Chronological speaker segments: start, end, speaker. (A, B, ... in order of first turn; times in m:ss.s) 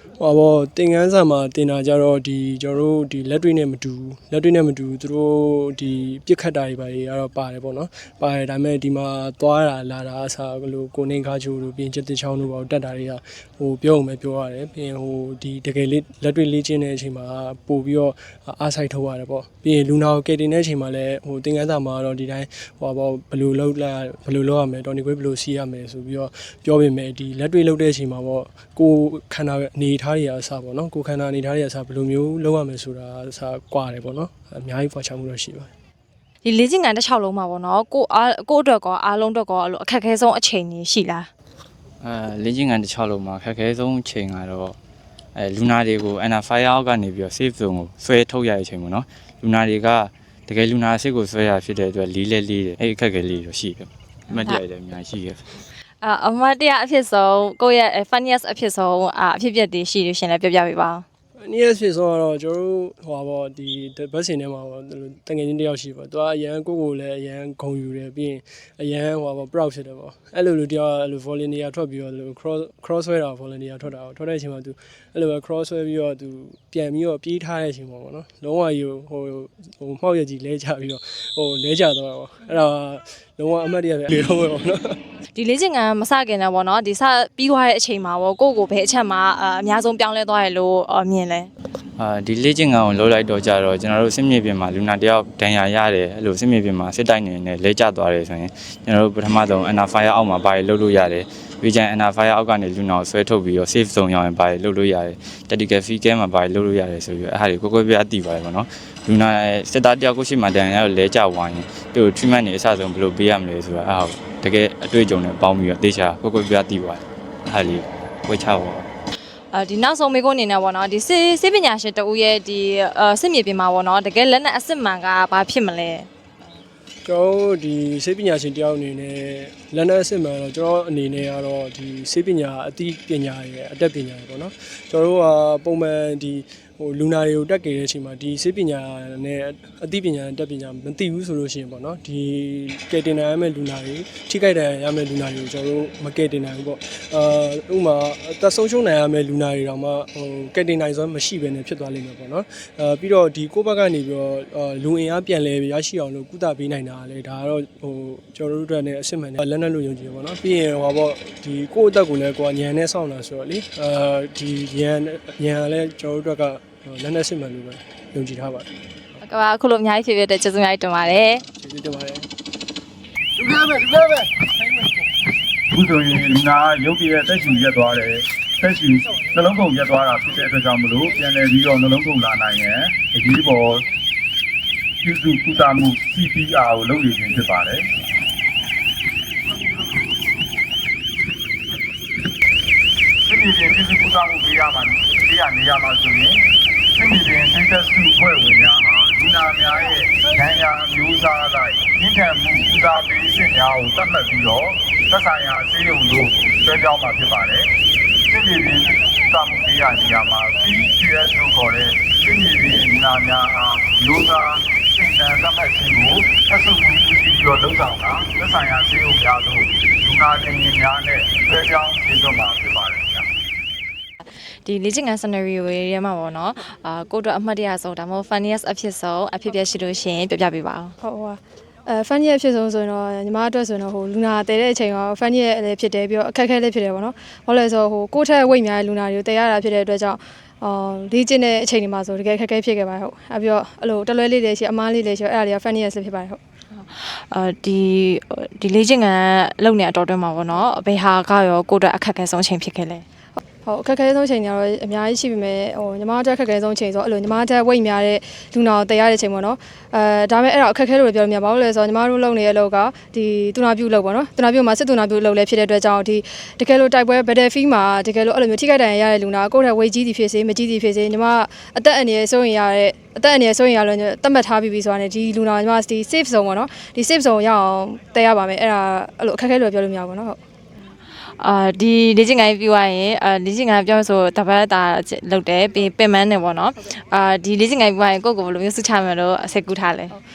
0:00.2-0:35.7 A
0:36.4-0:41.3 B
0:42.0-0:44.8 C
0:45.4-0:55.4 C
0:54.3-0:54.6 B
0:56.0-1:01.0 B
1:01.4-1:24.6 A
1:25.4-1:31.5 B
1:32.0-1:58.9 C
1:59.5-2:06.1 B
2:07.0-2:48.6 A
2:49.2-2:51.4 B
2:51.6-2:52.2 A
2:55.7-3:03.9 D
3:05.0-3:07.9 D
3:13.2-3:27.7 D
3:28.3-3:43.3 D
3:44.6-3:51.0 B
3:51.0-4:06.4 E
4:06.7-4:13.0 B
4:13.6-4:40.4 E
4:41.4-4:50.2 B